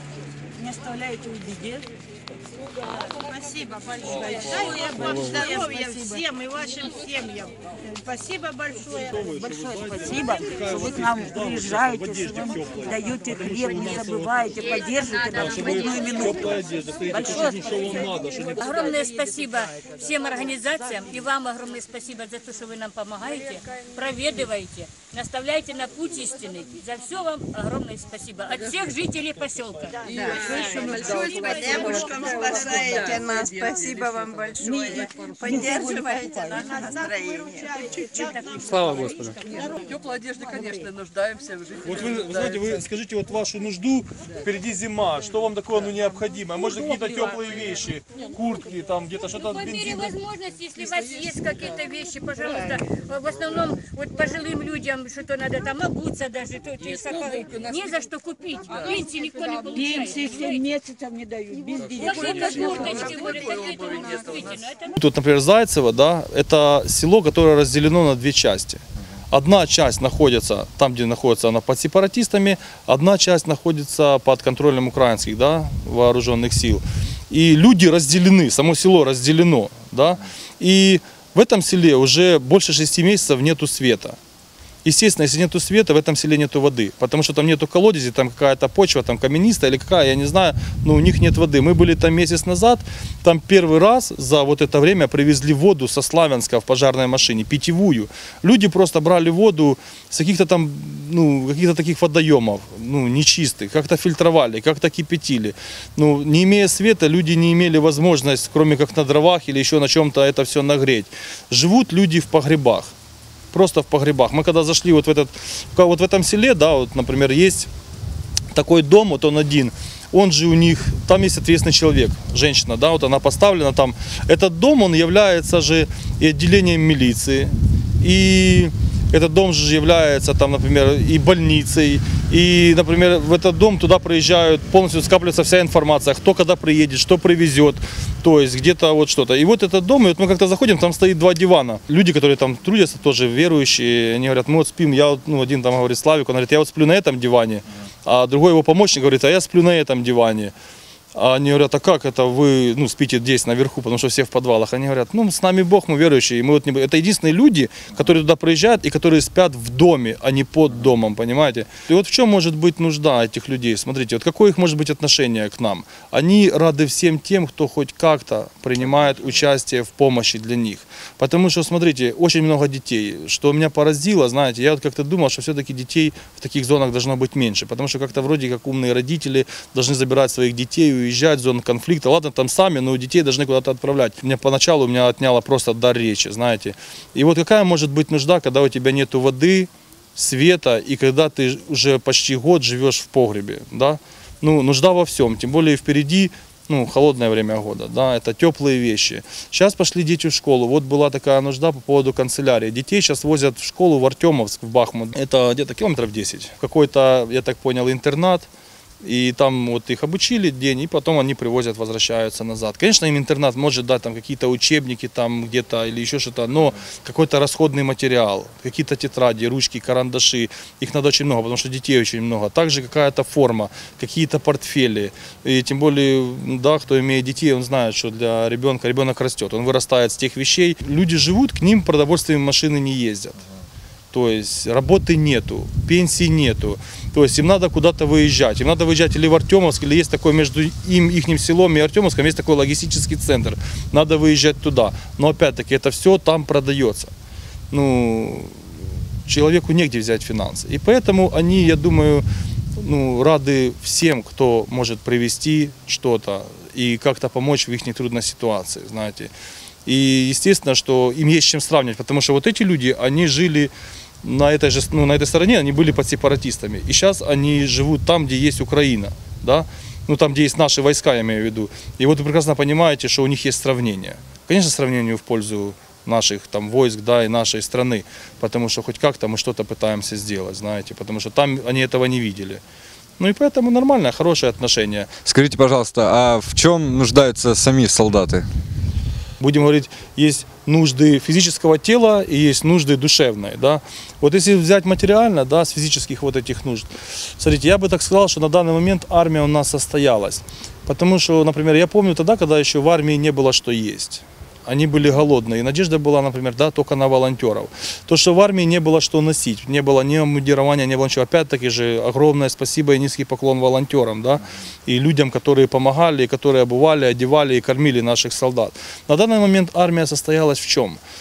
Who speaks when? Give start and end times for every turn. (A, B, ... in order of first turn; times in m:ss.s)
0:00.6-0:01.8 A
0:04.0-0:05.6 B
0:05.6-0:06.2 A
0:08.8-0:14.5 B
0:10.0-0:10.3 A
0:14.3-0:15.1 A
0:15.1-0:18.7 B
0:18.6-0:30.1 C
0:30.2-0:38.5 D
0:30.2-0:31.0 E
0:31.3-0:32.1 C
0:38.8-0:39.2 E
0:39.8-0:41.8 E
0:41.8-0:50.1 B
0:49.6-1:00.8 C
1:00.8-1:01.8 A
1:01.9-1:02.3 D
1:01.9-1:04.9 C
1:05.0-1:24.2 B
1:24.8-1:52.9 B
1:53.5-1:57.7 B
1:58.5-2:30.5 B
2:31.1-3:28.5 B
3:29.0-3:53.4 B
3:54.1-4:07.1 B
4:07.7-4:08.6 B
4:09.2-4:19.3 B
4:19.8-4:23.7 B
4:24.2-4:42.6 B
4:43.2-4:45.1 B
4:45.2-4:48.5 F
4:49.4-5:21.0 B